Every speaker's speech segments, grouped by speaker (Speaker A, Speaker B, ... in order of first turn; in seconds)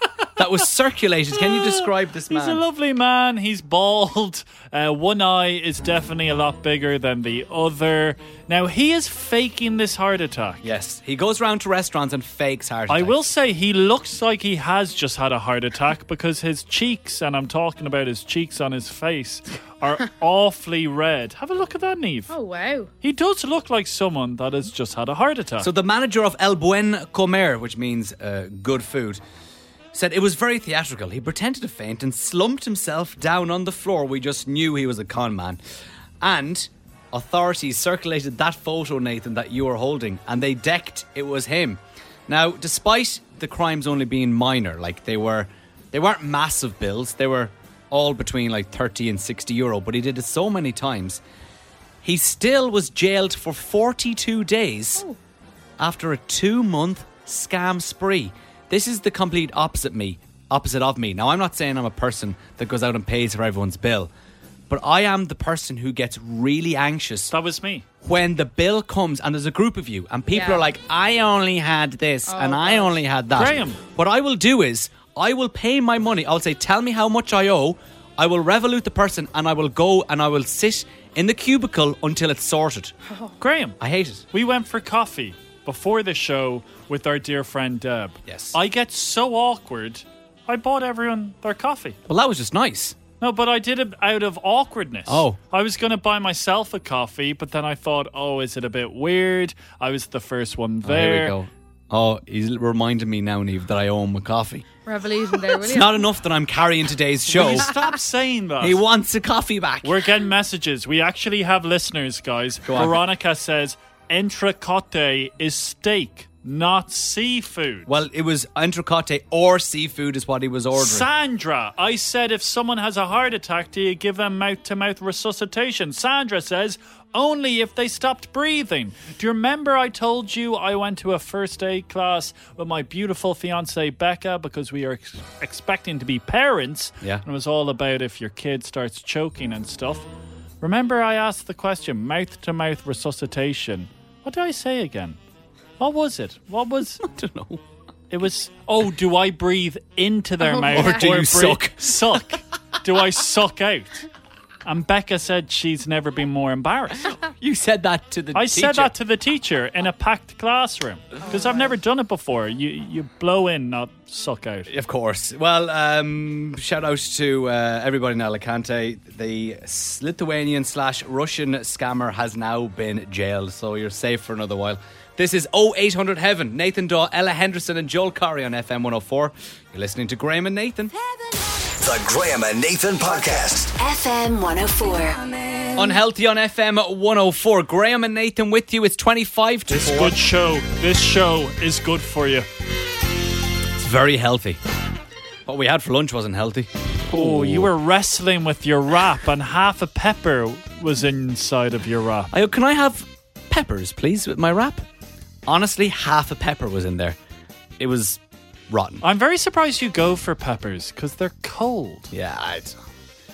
Speaker A: 0.4-2.6, 10.6-13.2, 25.6-29.2, 29.9-35.6, 36.2-51.2, 52.0-55.0, 55.8-64.1, 64.7-67.3, 68.0-83.0, 83.8-84.2, 88.2-88.5, 92.1-93.0, 95.1-95.4, 100.8-104.7, 105.4-107.7, 108.6-109.9, 112.6-113.0, 117.9-121.1, 147.0-147.6, 150.7-152.2, 157.2-158.9, 164.7-180.9, 185.7-190.2, 193.8-194.6, 195.4-197.7, 202.3-204.8, 205.5-207.2, 207.8-209.0, 212.1-212.8
Speaker B: 1.4-10.6, 12.9-22.3, 23.0-25.7, 67.3-67.8, 73.3-73.8, 83.4-83.8, 84.3-92.0, 93.2-101.3, 107.3-108.8, 109.8-117.9, 120.8-140.1, 140.6-145.2, 145.8-147.0, 148.1-154.1, 154.6-157.1, 158.3-164.7, 189.7-192.5, 197.1-202.3, 209.0-212.1
Speaker C: 22.3-22.9, 70.3-70.7, 72.3-73.0, 104.8-106.1, 150.4-151.1
Speaker D: 181.8-183.7
Speaker E: 183.8-185.7